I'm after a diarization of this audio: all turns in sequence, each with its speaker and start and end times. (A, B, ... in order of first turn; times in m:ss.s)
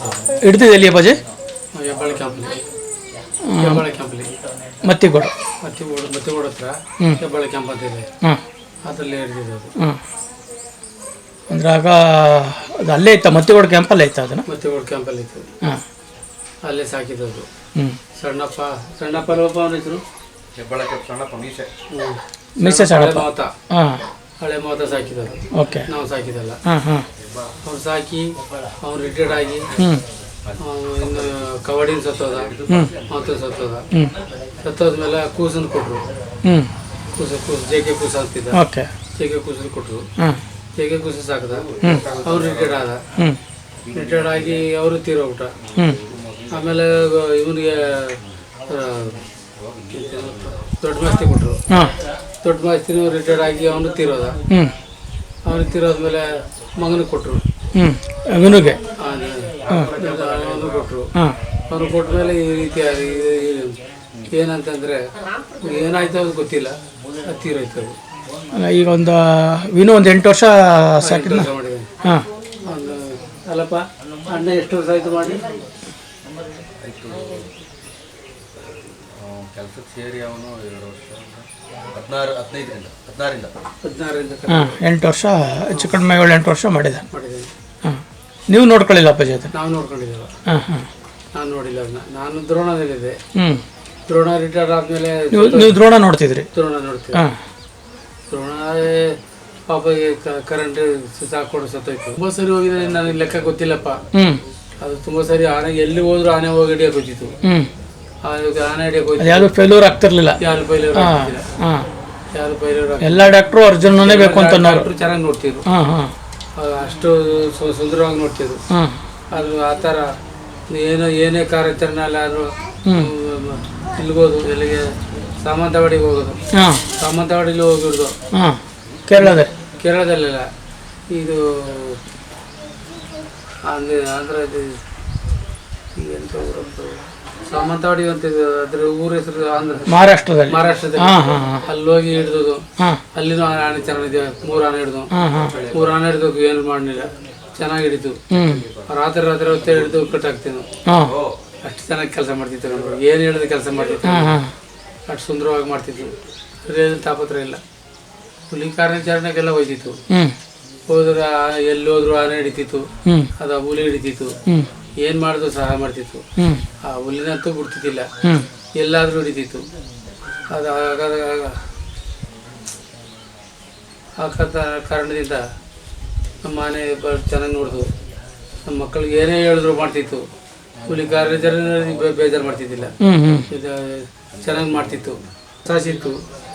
0:00.3-0:01.2 A
0:01.7-0:02.7 B
0:03.4-0:03.8 A
0:03.6-0:04.3 B
0:04.8-0:05.3 A
0:05.6-0:08.1 B
0:08.8-0:09.7 B
0:11.5-0:14.4 A
0:14.5-0:15.5 B
0:16.6-0:17.5 B
0:17.7-0:18.0 A
0:18.1-0:20.0 B
0:20.5-0:21.7 C
0:21.9-0:23.5 B
0:22.6-0:24.0 A
0:24.4-0:26.6 B
0:25.5-0:25.9 A
0:26.6-0:27.1 A
0:27.2-0:27.5 C
0:27.6-0:29.7 B
0:29.8-0:30.0 A
0:30.6-0:32.5 B
0:32.3-0:33.4 C
0:32.7-0:32.9 A
0:33.1-0:33.9 B
0:34.6-0:36.0 B
0:36.4-0:36.7 A
0:37.1-0:38.6 B
0:38.5-0:38.9 A
0:39.1-0:40.0 B
0:40.8-0:43.0 B
0:41.7-0:42.8 C
0:41.8-0:42.1 A
0:43.9-0:45.6 B
0:45.8-0:46.0 A
0:46.0-0:46.5 C
0:46.5-0:49.2 B
0:49.6-0:49.9 C
0:49.9-0:51.6 B
0:51.7-0:51.9 A
0:52.4-0:54.4 B
0:54.5-0:54.7 A
0:55.4-0:57.4 B
0:57.7-0:58.8 A
0:58.9-1:01.1 B
0:59.7-0:59.9 A
0:59.7-1:00.6 C
1:01.7-1:03.8 B
1:04.3-1:05.0 B
1:05.6-1:08.0 B
1:08.5-1:11.5 A
1:11.0-1:11.9 B
1:12.6-1:15.5 B
1:16.8-1:17.5 C
1:18.7-1:23.6 C
1:23.8-1:24.8 B
1:24.5-1:27.0 A
1:25.7-1:26.0 B
1:27.1-1:27.5 B
1:27.8-1:29.5 A
1:29.5-1:30.3 B
1:30.5-1:30.9 A
1:31.3-1:33.2 B
1:33.3-1:33.6 A
1:34.1-1:35.8 B
1:35.3-1:36.5 A
1:36.5-1:37.3 B
1:37.1-1:37.4 A
1:38.3-1:44.0 B
1:44.1-1:44.4 A
1:44.8-1:47.3 B
1:47.4-1:47.7 A
1:48.2-1:49.5 B
1:49.2-1:50.4 A
1:50.4-1:51.5 B
1:50.9-1:51.9 A
1:52.3-1:53.3 B
1:53.0-1:54.9 A
1:53.8-1:55.6 B
1:55.7-1:56.1 A
1:56.5-1:58.6 B
1:58.7-1:59.0 A
1:59.3-2:00.1 B
2:00.7-2:06.4 B
2:02.8-2:03.1 A
2:06.5-2:06.8 A
2:06.9-2:08.2 B
2:08.3-2:09.5 A
2:09.2-2:10.5 B
2:11.1-2:12.0 B
2:13.6-2:14.8 B
2:15.9-2:25.1 B
2:19.9-2:21.6 A
2:25.1-2:25.6 A
2:25.5-2:25.9 C
2:25.7-2:28.2 B
2:28.3-2:28.7 A
2:28.4-2:28.9 C
2:28.8-2:30.7 B
2:30.9-2:31.1 A
2:31.0-2:31.4 C
2:31.6-2:34.4 B
2:34.0-2:34.5 A
2:35.1-2:37.6 B
2:38.5-2:40.0 B
2:40.1-2:40.4 A
2:40.9-2:44.4 B
2:43.0-2:43.3 A
2:45.0-2:46.2 B
2:46.4-2:46.6 A
2:46.8-2:48.1 B
2:48.2-2:48.5 A
2:48.8-2:49.7 B
2:50.5-2:51.6 B
2:54.2-2:55.4 B
2:56.4-2:57.9 B
2:58.6-3:00.3 B
3:00.8-3:03.0 B
3:03.0-3:03.5 A
3:03.5-3:06.2 B